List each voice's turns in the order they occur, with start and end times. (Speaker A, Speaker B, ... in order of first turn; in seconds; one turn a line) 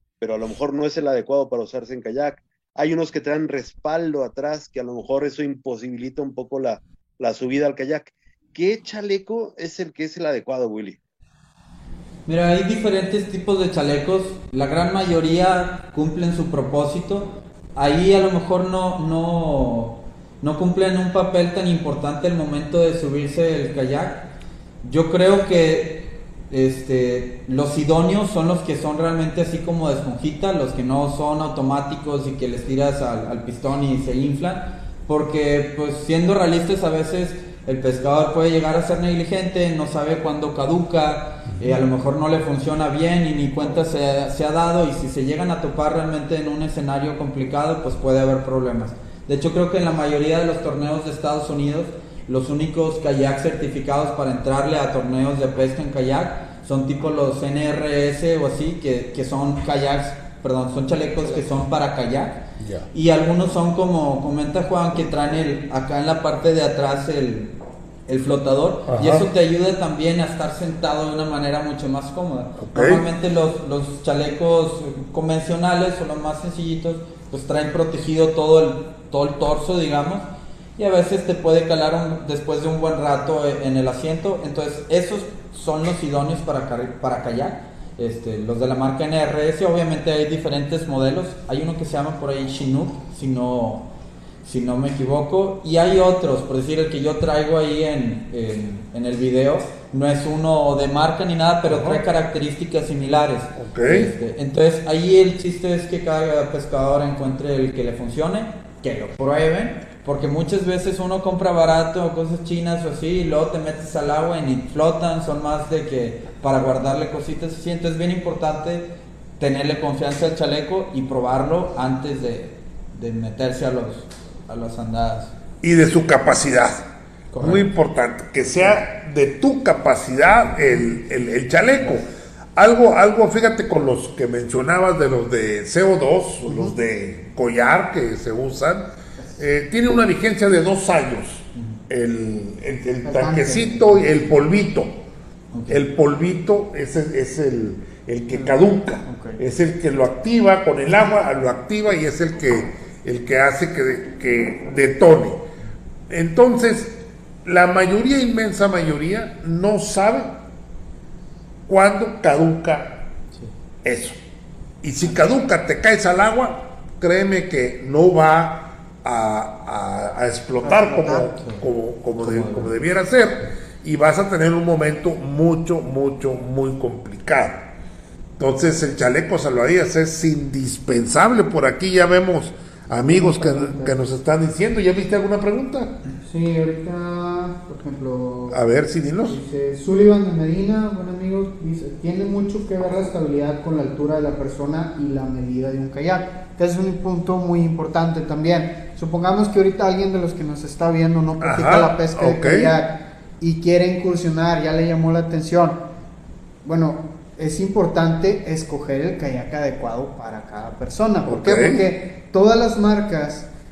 Speaker A: 0.2-11.0
Speaker B: 12.2-24.3
Speaker B: 24.8-67.5
Speaker C: 41.5-41.8
Speaker C: 62.6-62.9
Speaker B: 68.1-80.2
Speaker C: 68.9-69.2
Speaker C: 72.6-73.0
Speaker B: 80.8-93.9
Speaker B: 94.4-125.3
Speaker C: 101.7-102.0
Speaker C: 103.5-104.1
Speaker C: 125.6-126.9
Speaker B: 127.3-127.7
Speaker C: 127.4-132.0
Speaker C: 132.6-145.0
Speaker D: 136.5-136.8
Speaker D: 143.0-144.0
Speaker B: 145.5-145.8
Speaker C: 145.7-155.4
Speaker D: 148.3-149.4
Speaker C: 156.1-160.4
Speaker C: 161.7-163.1
Speaker C: 163.8-164.2
Speaker C: 164.8-177.7
Speaker D: 170.6-171.3
Speaker B: 171.3-171.6
Speaker B: 172.2-172.8
Speaker C: 178.4-186.0
Speaker D: 183.0-183.9
Speaker D: 186.2-188.6
Speaker C: 188.5-189.4
Speaker D: 189.2-205.8
Speaker C: 201.4-202.7
Speaker D: 206.6-213.5
Speaker C: 211.2-211.8